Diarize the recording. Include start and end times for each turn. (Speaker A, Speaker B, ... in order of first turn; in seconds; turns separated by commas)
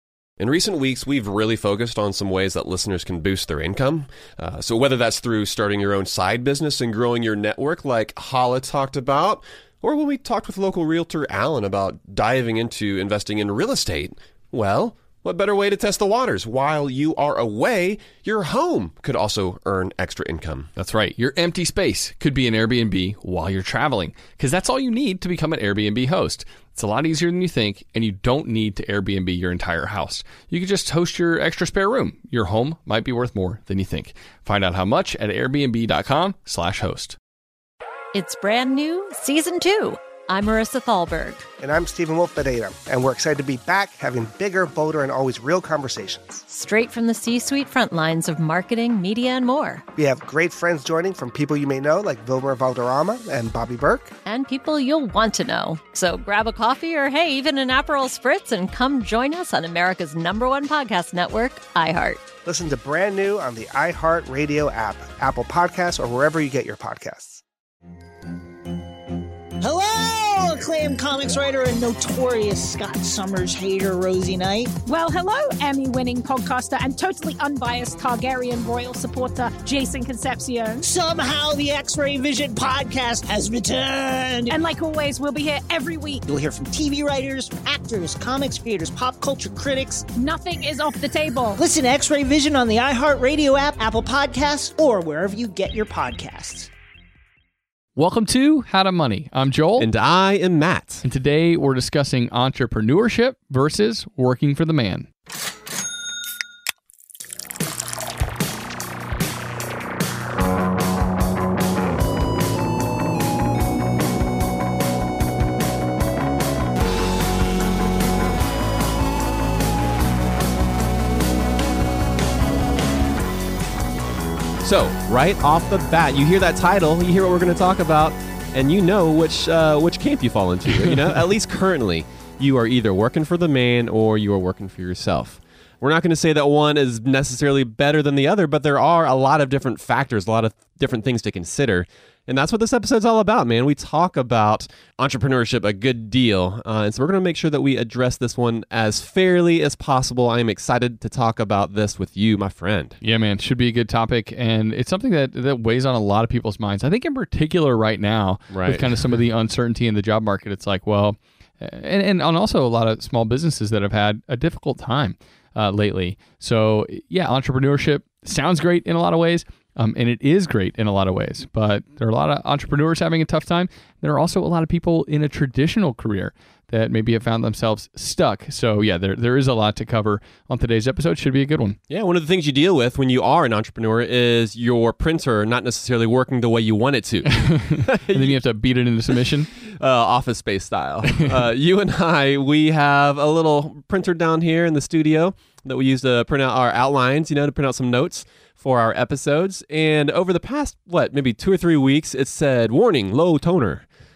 Speaker A: 0.4-20.7, Speaker B: 20.8-37.1, Speaker C: 38.1-41.4, Speaker D: 41.6-46.4, Speaker C: 46.5-49.8, Speaker D: 50.0-54.1, Speaker C: 54.2-62.2, Speaker D: 62.5-67.4, Speaker E: 69.6-74.7, Speaker F: 74.8-80.8, Speaker E: 80.8-84.5, Speaker F: 84.5-86.2, Speaker E: 86.3-90.0, Speaker F: 90.2-91.5, Speaker E: 91.6-96.7, Speaker B: 98.0-99.9, Speaker A: 99.8-101.0, Speaker B: 101.0-105.1, Speaker A: 124.6-153.0, Speaker B: 153.0-181.8, Speaker A: 158.5-159.0, Speaker A: 181.9-188.3, Speaker B: 187.3-189.5, Speaker A: 189.5-203.8